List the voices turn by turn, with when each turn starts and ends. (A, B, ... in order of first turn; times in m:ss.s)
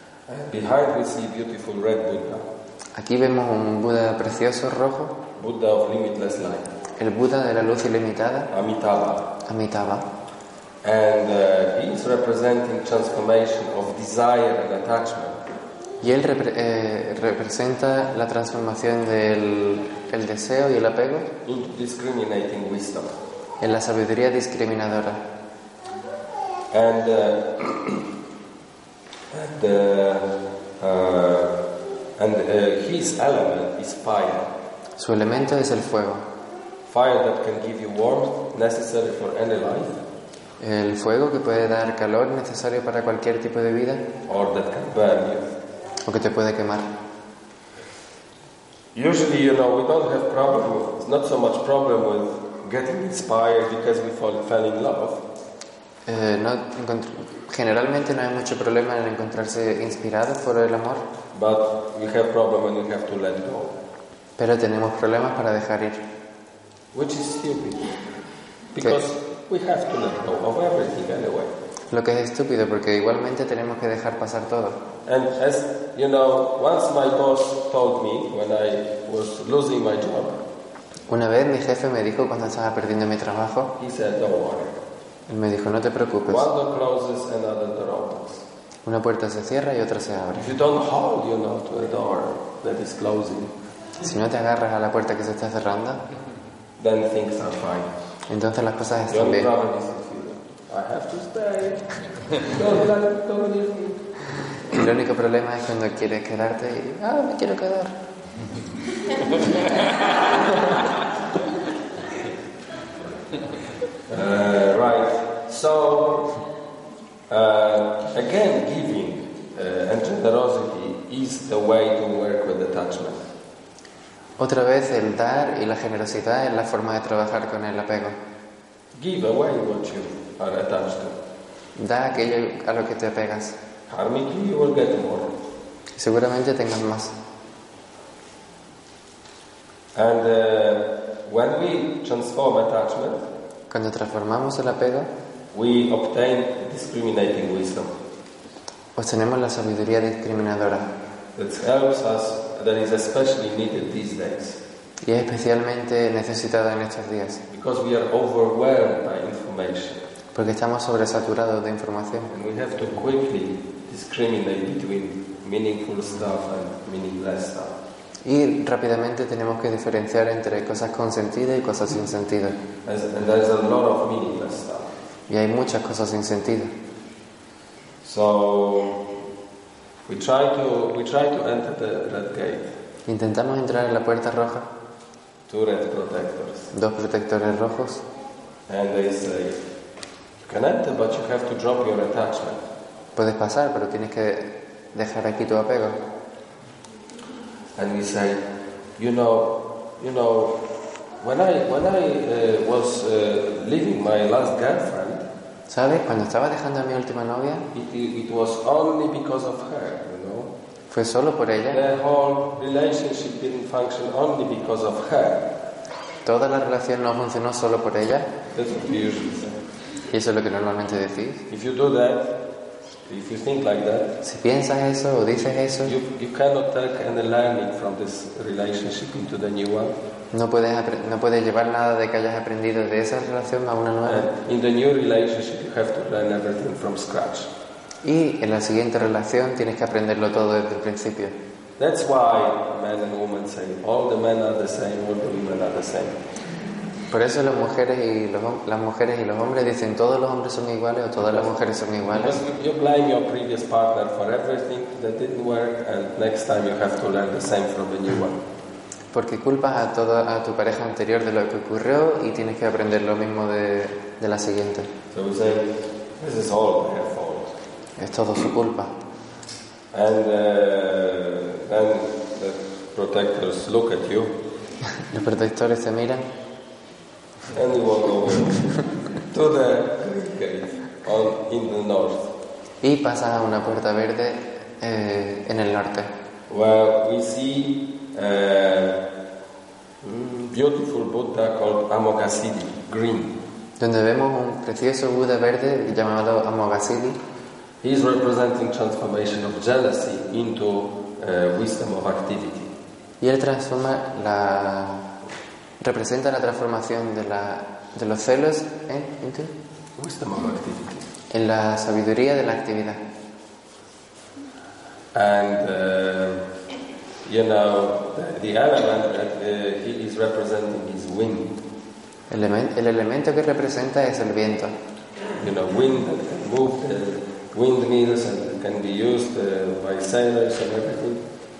0:00.3-0:02.5 A
0:03.0-0:05.2 B
0:05.4-0:06.7 A
0:07.0-0:08.5 B
0:08.5-0:09.3 A
0:09.4-0:10.1 B
0:10.8-0:15.4 A
0:16.0-0:21.3 B
0:21.4-0:23.2 A
0:23.6-0:25.2 B
0:26.7-0:28.1 A
0:29.3-0:31.6 A
0:32.2-0:34.5 A
0:35.0-0:36.2 B
0:36.9-0:40.0 A
0:40.6-0:44.1 B
0:44.3-0:45.5 A
0:46.0-0:46.9 B
0:48.9-0:55.2 A
0:56.1-1:01.0 B
1:01.3-1:03.8 A
1:04.4-1:06.0 B
1:06.9-1:08.0 A
1:08.7-1:11.5 A
1:11.9-1:14.8 B
1:15.1-1:20.4 A
1:21.1-1:23.8 B
1:23.8-1:24.8 A
1:25.3-1:26.5 B
1:26.3-1:28.4 A
1:28.8-1:30.6 B
1:30.4-1:33.5 A
1:34.0-1:36.0 B
1:36.8-1:37.9 A
1:38.3-1:39.5 B
1:39.1-1:44.1 A
1:44.7-1:48.0 B
1:54.1-1:56.4 A
1:57.3-2:03.2 A
2:04.4-2:08.2 B
2:09.0-2:11.2 A
2:11.8-2:13.6 B
2:13.9-2:15.3 A
2:16.0-2:17.2 B
2:20.0-2:23.2 A
2:23.7-2:25.1 B
2:25.5-2:28.0 A
2:29.0-2:30.9 B
2:31.4-2:34.6 A
2:35.0-2:37.4 B
2:37.5-2:40.1 A
2:40.4-2:42.3 B
2:42.3-2:47.8 A
2:48.2-2:52.6 B
2:52.8-2:54.9 A
2:55.3-2:56.7 B
2:58.0-2:59.1 A
3:00.1-3:02.7 A
3:03.1-3:04.7 B
3:05.5-3:06.7 A
3:06.7-3:08.0 B
3:08.7-3:09.6 A
3:10.5-3:12.6 A
3:13.2-3:16.0 B
3:17.8-3:18.4 A
3:19.0-3:20.6 A
3:21.2-3:25.3 A
3:25.7-3:27.7 B
3:27.7-3:30.5 A
3:30.9-3:31.8 B
3:31.7-3:35.5 A
3:36.2-3:38.3 B
3:38.5-3:39.6 A
3:40.1-3:41.5 B
3:41.5-3:42.4 A
3:43.1-3:44.2 A
3:44.2-3:46.0 B
3:45.8-3:50.0 A
3:50.3-3:54.3 B
3:54.0-3:57.5 A
3:58.0-4:01.4 B
4:01.8-4:06.2 A
4:07.1-4:12.4 B
4:12.1-4:18.4 A
4:19.1-4:24.9 B
4:25.1-4:27.6 A
4:28.0-4:28.9 B
4:29.9-4:34.4 A
4:35.0-4:36.3 B
4:37.5-4:38.7 A
4:39.3-4:42.3 A
4:42.8-4:46.1 B
4:46.5-4:49.0 A
4:50.0-4:53.4 A
4:53.8-4:57.2 B
4:57.8-5:02.7 A
5:03.2-5:05.1 B
5:05.8-5:09.5 B
5:10.0-5:11.1 A
5:11.3-5:13.0 B
5:15.1-5:16.5 A
5:17.2-5:21.6 A
5:22.3-5:24.8 B
5:25.4-5:31.2 A